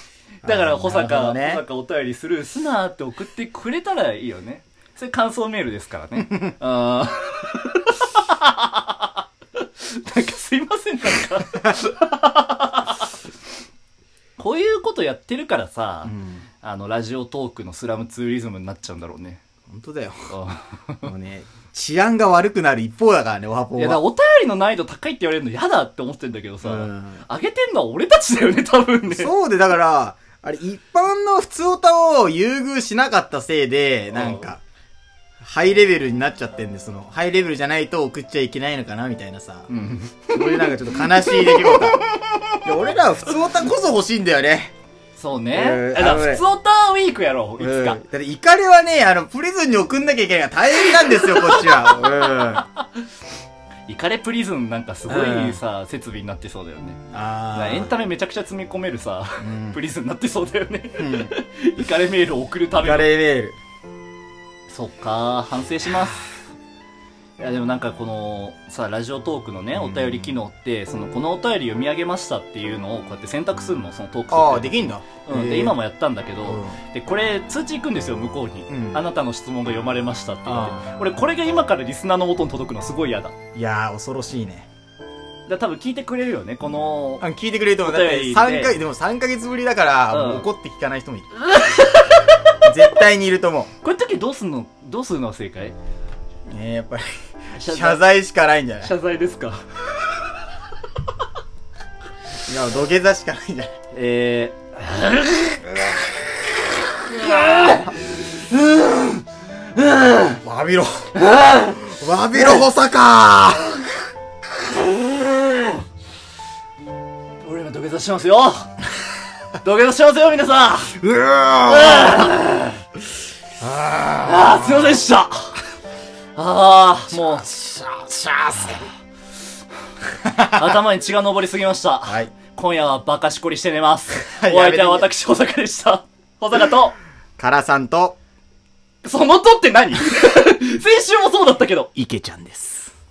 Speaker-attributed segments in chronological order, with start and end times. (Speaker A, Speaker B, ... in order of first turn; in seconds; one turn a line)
Speaker A: 0.4-1.6
Speaker B: 0.4-13.1
Speaker B: 14.4-19.4
Speaker A: 16.0-16.4
Speaker A: 19.7-20.2
Speaker B: 20.3-21.1
Speaker A: 21.0-24.0
Speaker B: 23.8-29.3
Speaker A: 26.6-27.2
Speaker A: 29.1-34.6
Speaker B: 34.1-34.5
Speaker A: 35.4-39.7
Speaker B: 39.7-42.6
Speaker A: 40.3-42.0
Speaker A: 42.6-44.7
Speaker B: 45.2-48.0
Speaker A: 45.5-46.4
Speaker A: 47.6-52.6
Speaker B: 50.8-52.8
Speaker B: 53.9-57.0
Speaker A: 55.1-55.6
Speaker A: 57.1-57.9
Speaker B: 57.5-63.1
Speaker A: 59.4-59.8
Speaker A: 61.0-61.3
Speaker A: 62.8-63.6
Speaker B: 64.7-66.4
Speaker B: 67.4-83.3
Speaker A: 69.7-70.3
Speaker A: 74.3-75.8
Speaker A: 76.4-76.8
Speaker A: 78.7-79.0
Speaker A: 80.4-80.8
Speaker A: 83.5-84.7
Speaker B: 85.5-87.2
Speaker A: 87.2-91.3
Speaker B: 87.8-88.7
Speaker B: 90.1-90.5
Speaker B: 91.4-92.5
Speaker A: 92.6-93.7
Speaker B: 93.8-95.7
Speaker A: 96.5-98.9
Speaker B: 97.5-98.0
Speaker B: 98.8-99.6
Speaker A: 102.5-103.7
Speaker B: 103.9-105.8
Speaker B: 106.9-110.4
Speaker A: 110.3-111.1
Speaker B: 111.3-111.8
Speaker A: 111.7-113.8
Speaker B: 117.4-118.8
Speaker B: 119.6-122.8
Speaker A: 121.1-122.1
Speaker B: 124.0-125.6
Speaker A: 124.2-124.7
Speaker B: 126.3-127.5
Speaker A: 127.1-128.9
Speaker A: 130.2-130.8
Speaker B: 130.5-136.9
Speaker A: 132.1-132.3
Speaker A: 134.2-135.1
Speaker A: 137.4-138.2
Speaker B: 139.0-141.9
Speaker A: 141.9-142.9